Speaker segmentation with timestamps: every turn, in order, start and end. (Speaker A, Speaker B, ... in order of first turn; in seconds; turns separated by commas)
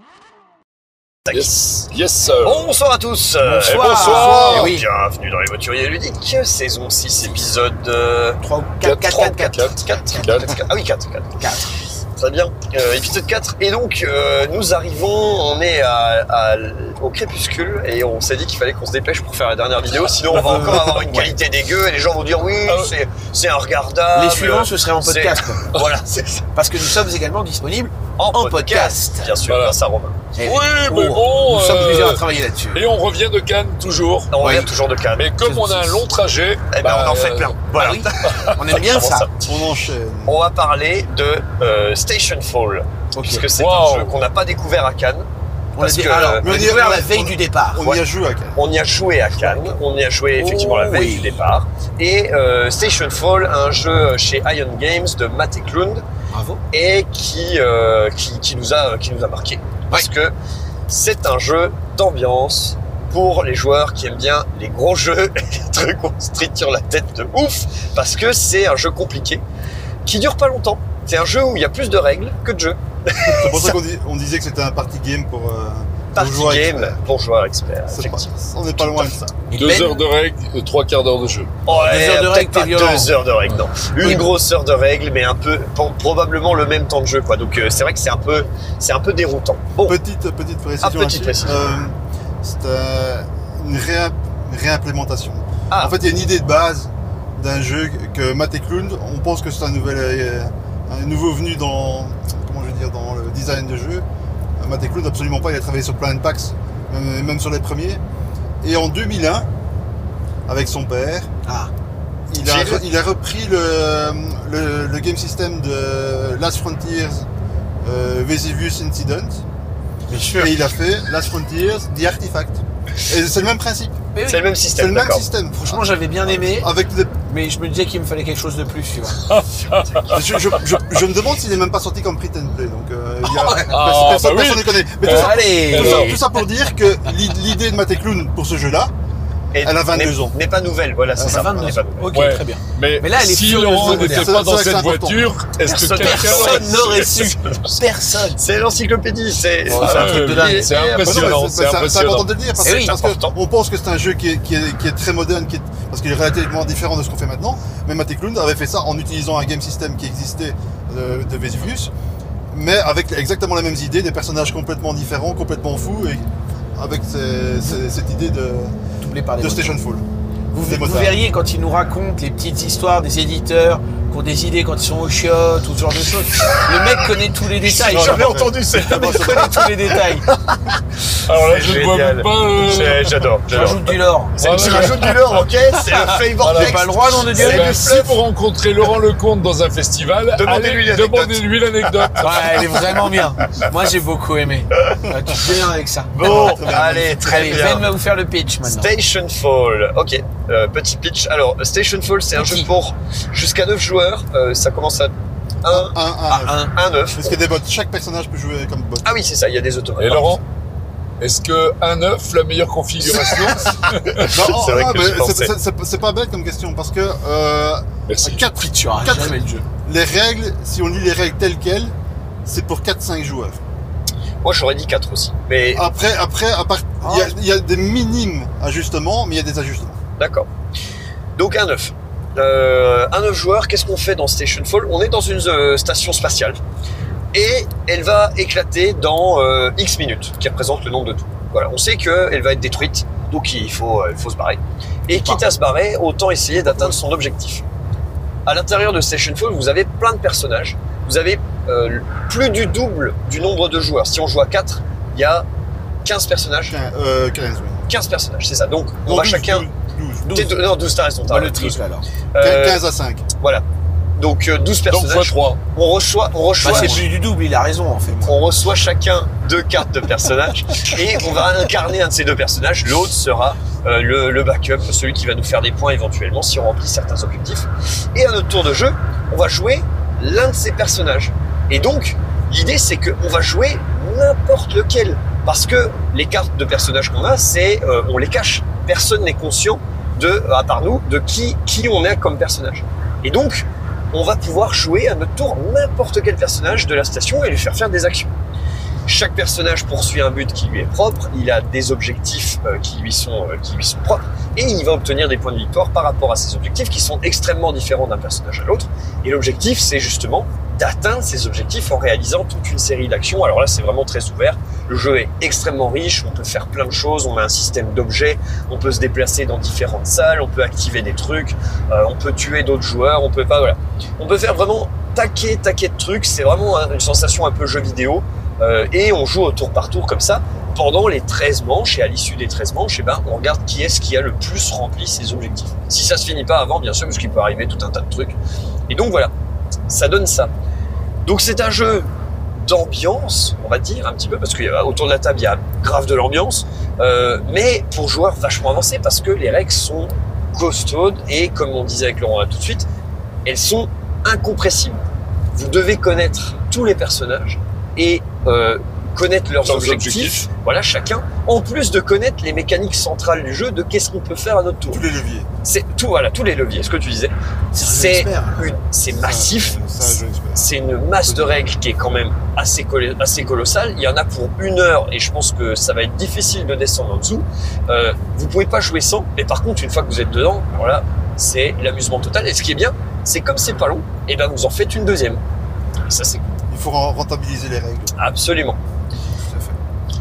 Speaker A: 1.2-1.8, Speaker B: 1.3-2.7, Speaker A: 2.4-8.4, Speaker B: 3.4-4.7, Speaker C: 3.6-4.8, Speaker C: 8.4-9.6, Speaker B: 8.8-10.6, Speaker A: 9.0-11.3, Speaker C: 10.1-10.5, Speaker C: 11.4-11.7, Speaker A: 12.2-26.5, Speaker C: 20.3-21.3, Speaker B: 20.6-20.8, Speaker C: 24.1-25.7, Speaker C: 26.5-29.3, Speaker A: 28.2-30.2, Speaker B: 29.5-29.8, Speaker C: 30.3-32.8, Speaker B: 30.4-34.3, Speaker A: 34.3-35.3, Speaker C: 34.4-34.7, Speaker B: 35.1-37.5, Speaker C: 35.4-36.0, Speaker A: 36.7-39.5, Speaker C: 37.7-39.3, Speaker B: 38.2-38.7, Speaker D: 39.5-40.4, Speaker A: 40.3-45.2, Speaker C: 43.1-43.5, Speaker B: 43.5-44.2, Speaker C: 45.8-47.8, Speaker A: 45.8-46.5, Speaker D: 46.4-48.6, Speaker A: 48.5-56.0, Speaker C: 49.4-49.8, Speaker C: 50.4-51.4, Speaker C: 56.3-56.6, Speaker A: 56.7-60.3, Speaker A: 60.9-69.4, Speaker A: 70.0-73.8, Speaker D: 73.2-77.0, Speaker A: 76.1-78.2, Speaker D: 77.9-79.5, Speaker A: 78.8-79.1, Speaker C: 79.5-80.0, Speaker B: 79.5-81.5, Speaker A: 81.7-90.0, Speaker C: 81.8-83.1, Speaker C: 84.0-84.3, Speaker D: 89.8-104.0, Speaker A: 90.8-91.7, Speaker A: 95.7-96.0, Speaker D: 104.6-108.0, Speaker D: 108.6-109.5, Speaker D: 110.5-111.3, Speaker C: 111.4-111.7, Speaker D: 112.3-117.3, Speaker A: 112.4-112.8, Speaker D: 117.8-119.4, Speaker C: 120.1-120.5, Speaker D: 120.4-124.0, Speaker C: 124.1-124.5, Speaker A: 124.3-125.3, Speaker D: 124.8-127.1, Speaker C: 125.6-126.7, Speaker C: 127.3-129.2, Speaker B: 129.3-130.2, Speaker D: 130.1-138.9, Speaker B: 133.6-136.2, Speaker C: 135.0-136.2, Speaker A: 139.5-142.1, Speaker D: 139.6-140.3, Speaker D: 141.2-141.8, Speaker C: 141.2-144.4, Speaker B: 142.1-147.3, Speaker D: 143.8-145.3, Speaker A: 145.6-147.8, Speaker C: 146.0-148.4, Speaker A: 148.3-151.4, Speaker C: 149.7-150.9, Speaker B: 149.7-152.3, Speaker D: 151.0-161.9, Speaker A: 152.6-153.4, Speaker C: 152.6-152.9, Speaker D: 162.5-166.2, Speaker D: 166.8-168.7, Speaker C: 169.0-169.8, Speaker D: 169.4-170.0, Speaker C: 170.5-180.3, Speaker D: 170.6-171.2, Speaker A: 177.6-179.7, Speaker D: 177.8-179.9, Speaker A: 180.3-180.6, Speaker B: 181.3-183.7, Speaker A: 181.3-183.8, Speaker C: 183.5-184.9, Speaker A: 184.4-188.2, Speaker B: 184.4-185.4, Speaker B: 186.4-192.6, Speaker C: 186.5-187.8, Speaker A: 190.3-191.4, Speaker C: 192.2-196.5, Speaker A: 196.1-197.8, Speaker D: 196.2-197.5, Speaker C: 197.2-198.9, Speaker A: 198.6-205.9, Speaker C: 202.3-202.7, Speaker D: 205.7-206.6, Speaker C: 206.3-206.7, Speaker A: 206.7-207.4, Speaker D: 207.1-209.1, Speaker A: 209.0-210.4, Speaker B: 210.0-210.4, Speaker B: 211.2-214.3, Speaker A: 214.2-215.5, Speaker D: 214.3-221.9, Speaker B: 218.1-218.4, Speaker C: 218.4-219.6, Speaker D: 222.4-223.6, Speaker A: 224.4-225.8, Speaker D: 225.7-230.0, Speaker C: 227.0-227.3, Speaker A: 230.2-230.5, Speaker A: 231.3-236.6, Speaker A: 237.3-247.6, Speaker C: 245.1-245.4, Speaker A: 248.4-255.4, Speaker A: 256.0-256.8, Speaker D: 256.7-257.9, Speaker A: 257.9-259.6, Speaker D: 259.1-260.3, Speaker C: 260.2-260.5, Speaker A: 260.3-261.8, Speaker C: 261.2-262.1, Speaker A: 262.3-262.8, Speaker D: 262.4-263.2, Speaker A: 264.2-267.1, Speaker B: 264.9-265.6, Speaker C: 266.6-268.3, Speaker D: 268.0-268.4, Speaker A: 268.2-298.3, Speaker A: 299.1-338.4, Speaker A: 338.9-339.3, Speaker A: 339.9-340.5, Speaker A: 341.2-352.9, Speaker A: 353.4-355.0, Speaker A: 355.5-365.0, Speaker B: 359.6-360.4, Speaker D: 364.9-365.5, Speaker A: 365.6-385.4, Speaker C: 367.7-368.7, Speaker D: 369.1-371.6, Speaker A: 386.1-386.4, Speaker D: 386.7-388.1, Speaker A: 388.2-388.8, Speaker D: 389.5-389.7